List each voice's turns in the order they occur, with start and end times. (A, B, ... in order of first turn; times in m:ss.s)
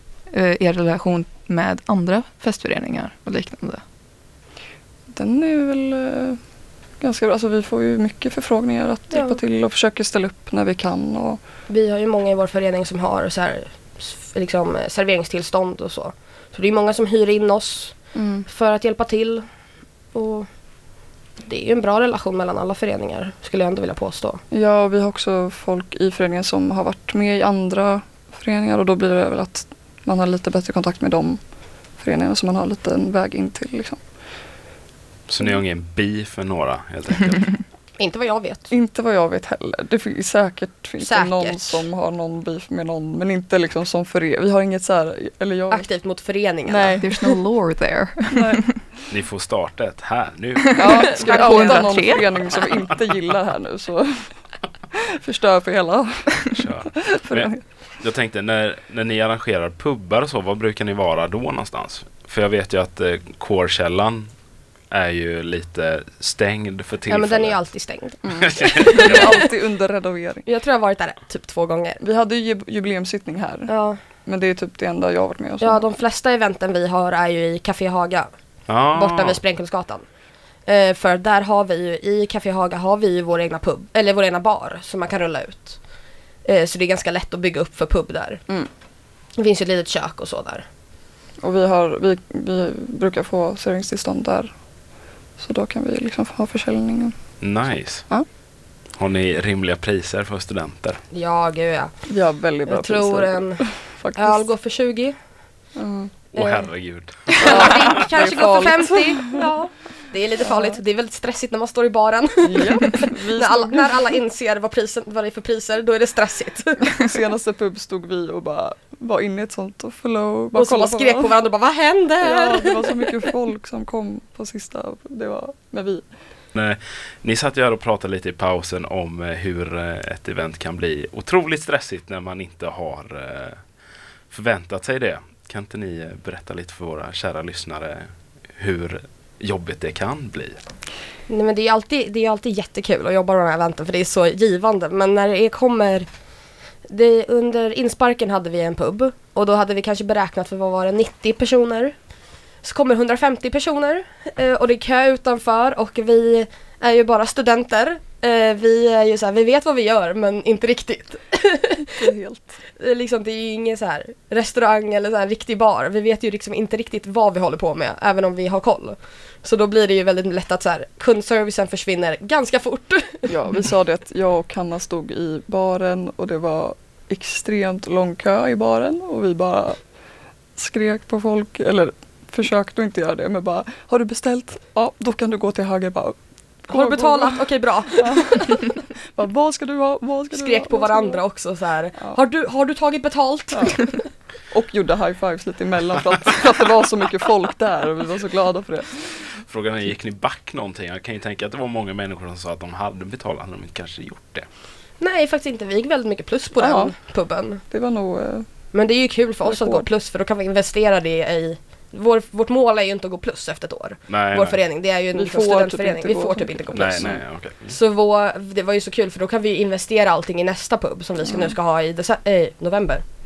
0:00.3-0:03.8 A
0:05.1-0:06.4 B
0:07.0-0:11.4 B
0:09.1-0:09.4 C
0:11.7-0:19.4 C
0:18.2-0:18.4 B
0:20.1-0:20.5 C
0:21.4-0:24.4 C
0:24.5-0:31.4 B
0:32.0-0:34.0 B
0:35.3-0:37.6 D
0:38.0-0:38.7 C
0:38.7-0:45.9 B
0:41.0-0:41.9 C
0:45.7-0:47.0 C
0:46.7-0:47.4 B
0:47.0-0:48.8 A
0:48.4-0:48.6 B
0:49.1-0:51.1 D
0:50.6-0:52.3 A
0:50.8-0:57.6 B
0:50.9-0:52.1 C
0:56.6-1:04.3 D
1:04.9-1:07.6 D
1:07.1-1:09.4 C
1:08.2-1:10.4 B
1:08.4-1:09.3 D
1:10.5-1:12.0 C
1:12.0-1:13.7 B
1:13.7-1:14.0 C
1:14.2-1:15.9 B
1:15.6-1:18.3 C
1:18.7-1:19.4 D
1:18.9-1:20.1 C
1:20.7-1:25.8 C
1:26.4-1:28.4 C
1:29.4-1:30.6 C
1:31.4-1:34.5 B
1:35.4-1:37.2 B
1:37.4-1:38.1 D
1:39.0-1:41.0 D
1:41.1-1:41.9 C
1:42.1-1:44.4 B
1:42.6-1:45.2 C
1:45.8-1:46.2 B
1:46.3-1:47.9 D
1:46.4-1:46.7 C
1:47.3-1:57.0 C
1:47.4-1:49.5 B
1:52.4-1:54.1 B
1:56.8-2:01.3 B
2:00.5-2:03.0 C
2:02.2-2:06.1 B
2:06.5-2:13.6 D
2:14.3-2:20.6 D
2:21.3-2:26.1 C
2:26.9-2:32.0 C
2:32.6-2:42.1 C
2:42.0-2:42.6 B
2:42.8-2:53.3 C
2:53.3-2:59.8 B
3:00.6-3:07.4 B
3:06.7-3:08.5 C
3:08.0-3:08.6 B
3:09.1-3:11.2 B
3:10.3-3:14.0 C
3:13.5-3:13.8 B
3:14.5-3:19.2 B
3:19.5-3:24.5 D
3:25.0-3:27.6 C
3:26.6-3:26.9 B
3:27.7-3:28.5 B
3:28.7-3:43.0 C
3:29.4-3:29.9 B
3:34.1-3:34.6 D
3:35.1-3:37.2 B
3:36.8-3:37.8 D
3:41.3-3:41.5 B